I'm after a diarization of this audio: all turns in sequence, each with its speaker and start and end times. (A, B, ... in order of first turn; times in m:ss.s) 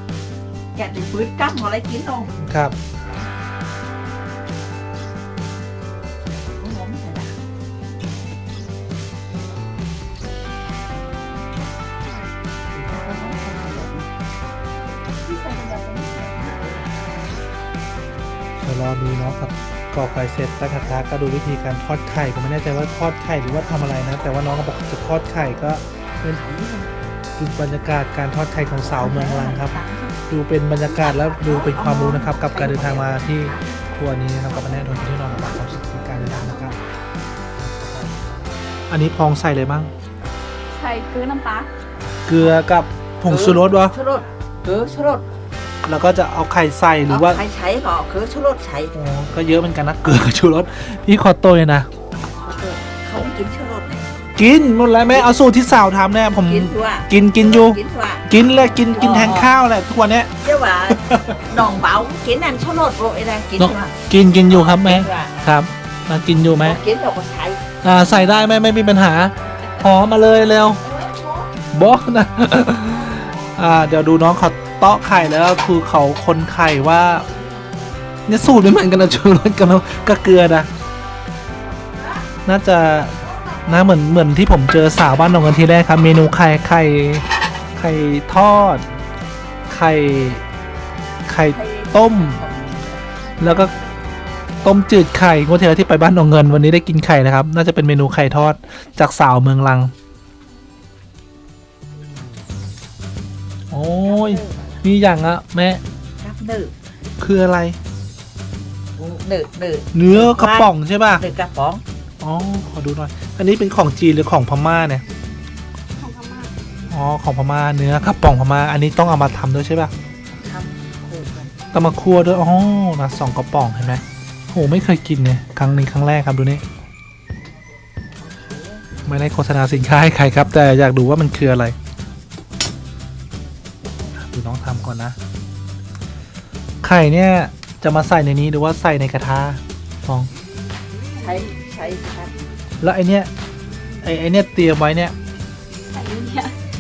0:00.8-0:02.4 A
0:02.4-0:02.8 B
0:06.5-0:07.3 A
0:12.7-0:14.1 A
0:15.2-0:16.7 C
0:18.6-0:25.8 B
0:26.2-0:26.9 A
0:27.4-0:36.8 B
0:28.8-0:30.2 A
0:30.8-0:33.8 A
0:35.2-0:36.9 A
0:38.9-0:39.9 B
0:40.7-0:41.7 C
0:42.3-0:44.0 B
0:43.3-0:45.2 A
0:45.8-0:47.4 B
0:47.1-0:48.9 A
0:48.9-0:51.9 B
0:52.3-0:54.1 A
0:54.4-1:00.3 B
0:56.4-0:58.3 A
0:58.9-0:59.5 A
1:00.4-1:04.0 A
1:00.9-1:01.4 B
1:03.6-1:06.8 B
1:04.5-1:05.5 A
1:06.6-1:07.6 A
1:07.8-1:10.8 B
1:10.8-1:11.3 C
1:10.9-1:11.3 A
1:11.7-1:17.3 B
1:13.0-1:13.3 C
1:18.3-1:20.7 B
1:22.5-1:27.2 B
1:27.8-1:28.8 B
1:29.7-1:30.4 B
1:31.3-1:32.4 B
1:31.5-1:33.7 A
1:33.4-1:33.7 B
1:34.6-1:39.9 B
1:43.7-1:45.8 B
1:44.1-1:44.7 A
1:46.2-1:46.7 A
1:47.2-1:47.8 B
1:49.0-1:51.8 A
1:49.9-1:51.2 B
1:52.2-1:55.0 B
1:56.0-1:56.6 C
1:56.9-1:59.9 B
2:00.4-2:01.6 A
2:01.7-2:06.6 B
2:08.2-2:08.8 A
2:09.1-2:11.8 B
2:14.3-2:15.2 B
2:16.8-2:20.3 B
2:21.2-2:22.4 A
2:22.8-2:23.3 B
2:24.0-2:25.1 B
2:25.9-2:26.5 C